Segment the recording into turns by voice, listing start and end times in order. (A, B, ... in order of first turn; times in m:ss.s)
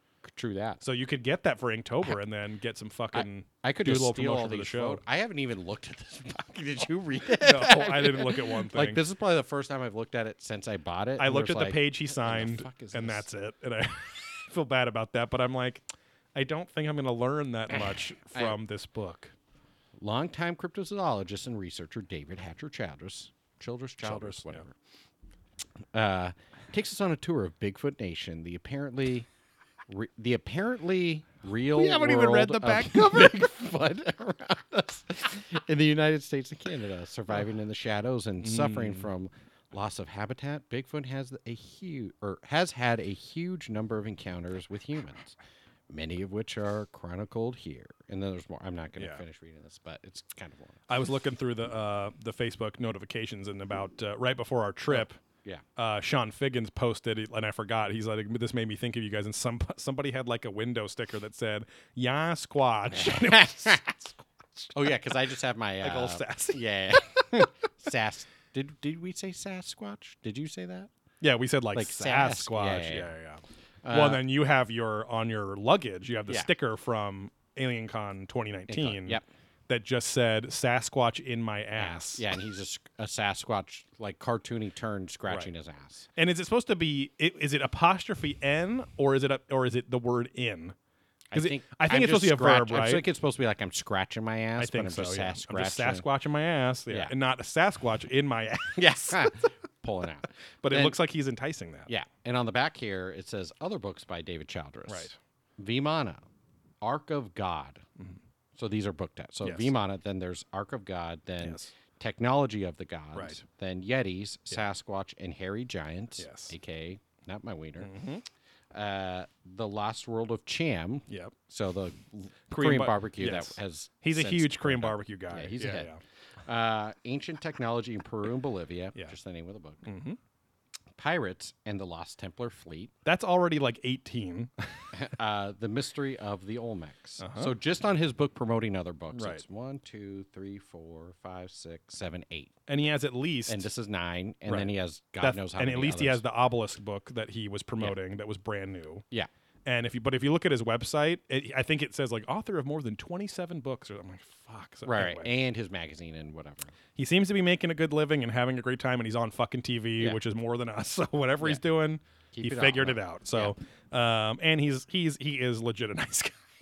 0:00.2-0:00.8 A
0:00.8-0:05.0 B
0:03.1-0:13.3 A
0:07.4-0:09.0 B
0:11.2-0:19.3 B
0:18.3-0:18.6 A
0:20.0-0:24.8 A
0:24.0-0:24.6 B
0:25.9-0:29.3 A
0:29.9-0:45.4 A
0:31.7-0:33.5 B
0:38.4-0:39.1 B
0:45.9-0:50.8 A
0:49.0-0:49.2 B
0:50.9-0:55.2 B
0:54.9-0:55.6 A
0:55.8-1:05.0 B
1:02.9-1:03.9 A
1:04.7-1:10.9 A
1:05.8-1:06.6 B
1:11.2-1:22.2 B
1:11.7-1:13.1 A
1:13.8-1:14.2 A
1:18.7-1:19.2 A
1:21.8-1:26.1 A
1:26.2-1:30.8 B
1:31.3-1:36.0 A
1:31.4-1:33.1 B
1:34.6-1:39.3 B
1:38.8-1:41.0 A
1:40.6-1:41.9 B
1:41.9-1:46.2 A
1:44.9-1:45.2 B
1:46.8-1:47.8 A
1:48.6-1:57.9 A
1:49.4-1:49.7 B
1:51.4-1:51.7 B
1:53.2-1:53.4 B
1:56.2-1:56.5 B
1:57.8-1:58.2 B
1:58.7-2:05.9 A
2:01.1-2:01.3 B
2:02.5-2:06.0 B
2:06.5-2:09.9 A
2:09.8-2:10.2 B
2:11.0-2:12.9 A
2:13.0-2:14.9 B
2:14.9-2:22.6 A
2:17.2-2:17.5 B
2:19.1-2:19.4 B
2:22.7-2:23.7 B
2:23.5-2:26.2 A
2:24.5-2:29.0 B
2:29.6-2:35.3 B
2:34.9-2:36.7 A
2:37.0-2:46.4 B
2:42.3-2:43.6 A